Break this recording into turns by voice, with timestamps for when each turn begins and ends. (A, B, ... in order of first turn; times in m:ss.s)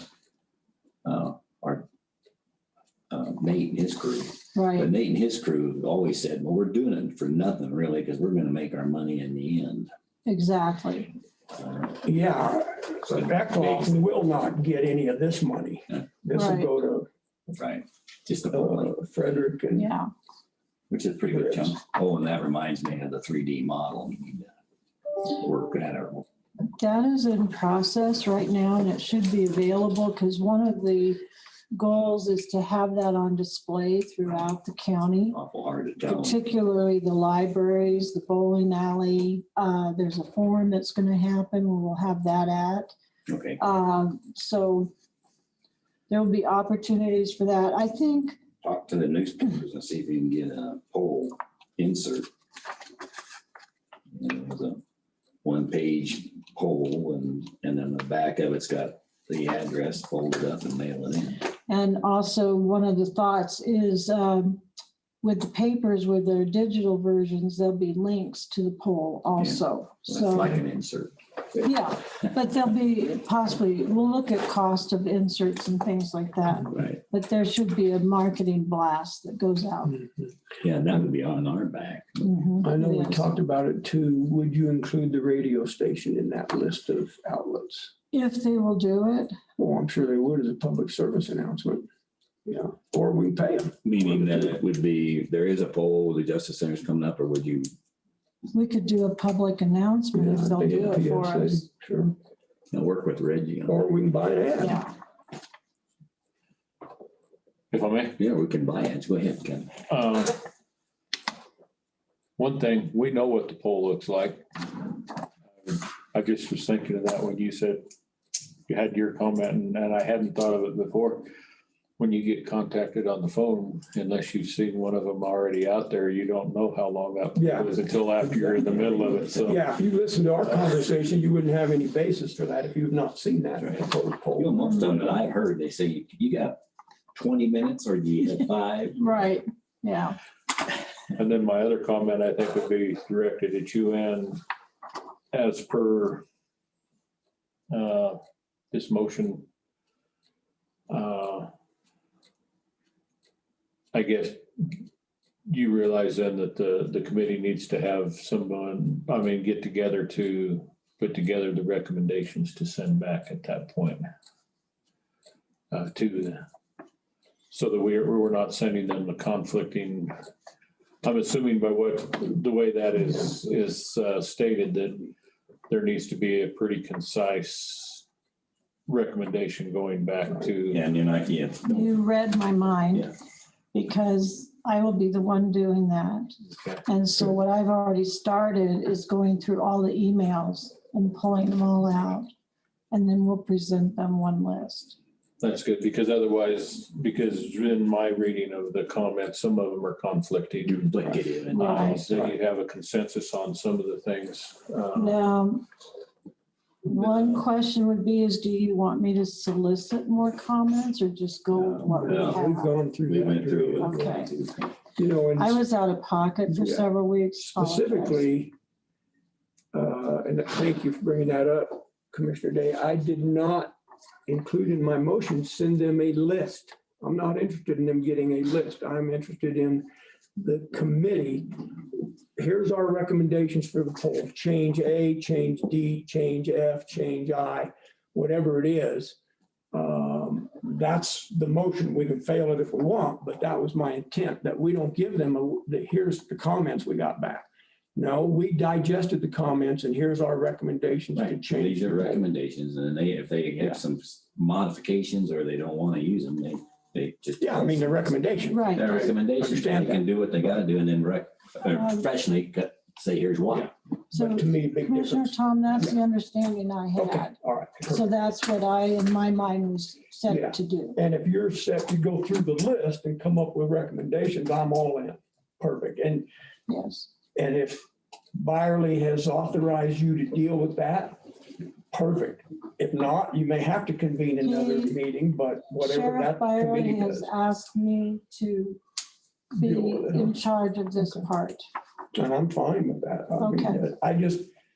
0:01.0-0:01.8 A
0:03.1-0:09.9 A
0:04.6-0:04.9 B
0:10.3-0:11.1 B
0:11.6-0:12.0 A
0:12.0-0:17.1 C
0:13.1-0:14.0 A
0:16.3-0:16.7 B
0:17.5-0:19.0 A
0:18.5-0:19.9 C
0:19.8-0:20.1 B
0:20.9-0:24.5 A
0:21.3-0:21.7 C
0:25.2-0:26.3 A
0:26.8-0:31.2 B
0:31.7-0:35.4 B
0:35.3-0:36.4 A
0:36.0-0:42.9 B
0:43.3-0:43.6 A
0:43.6-0:44.9 B
0:46.1-0:48.4 B
0:48.6-0:52.3 A
0:54.1-0:54.8 A
0:55.4-1:01.4 A
1:01.7-1:04.6 B
1:05.2-1:10.6 B
1:09.4-1:11.1 A
1:11.6-1:20.0 B
1:16.7-1:17.0 A
1:20.6-1:22.3 A
1:22.2-1:23.4 B
1:22.6-1:27.9 C
1:28.1-1:29.4 B
1:29.6-1:31.9 C
1:32.5-1:34.6 C
1:33.8-1:37.7 A
1:38.5-1:41.6 B
1:40.1-1:42.2 C
1:42.7-1:43.8 A
1:43.7-1:44.8 C
1:44.6-1:44.9 B
1:47.7-1:48.2 D
1:48.2-1:49.8 A
1:49.9-1:50.4 D
1:52.4-1:54.9 D
1:55.6-1:57.9 D
1:58.7-2:01.3 D
2:02.0-2:09.7 D
2:07.4-2:08.6 C
2:08.6-2:09.6 A
2:09.4-2:15.2 C
2:13.6-2:16.6 A
2:17.1-2:19.0 A
2:19.0-2:20.2 B
2:21.2-2:24.4 D
2:25.3-2:26.2 D
2:27.7-2:28.2 D
2:28.7-2:29.5 D
2:30.9-2:31.5 D
2:33.9-2:34.7 D
2:35.5-2:44.1 D
2:45.7-2:46.4 D
2:47.5-2:50.1 D
2:51.0-2:55.1 D
2:55.7-2:58.0 D
2:58.9-3:00.8 D
3:00.7-3:02.0 A
3:01.7-3:03.1 B
3:03.7-3:06.3 B
3:06.5-3:07.3 D
3:06.9-3:12.3 B
3:12.9-3:15.0 B
3:15.4-3:20.9 D
3:20.7-3:22.1 A
3:21.5-3:22.0 B
3:21.5-3:25.2 D
3:25.0-3:25.6 B
3:26.9-3:32.7 B
3:27.0-3:27.4 D
3:31.6-3:32.4 A
3:31.9-3:34.0 C
3:33.1-3:34.7 A
3:33.8-3:34.3 B
3:35.0-3:35.6 C
3:35.4-3:38.2 B
3:36.5-3:38.5 C
3:39.7-3:43.8 C
3:44.3-3:51.7 C
3:52.4-3:59.2 C
3:59.7-4:12.2 C
4:11.2-4:17.9 A
4:17.4-4:20.0 C
4:18.5-4:18.9 B
4:18.7-4:23.7 A
4:24.1-4:26.0 C
4:24.1-4:27.3 B
4:27.0-4:28.1 C
4:27.9-4:31.0 B
4:30.3-4:36.3 C
4:36.7-4:37.1 B
4:37.4-4:41.3 C
4:41.9-4:47.3 C
4:44.4-4:45.0 B
4:45.8-4:48.8 B
4:49.5-4:51.6 B
4:49.6-4:50.4 C
4:52.1-4:54.5 C
4:53.4-4:53.8 B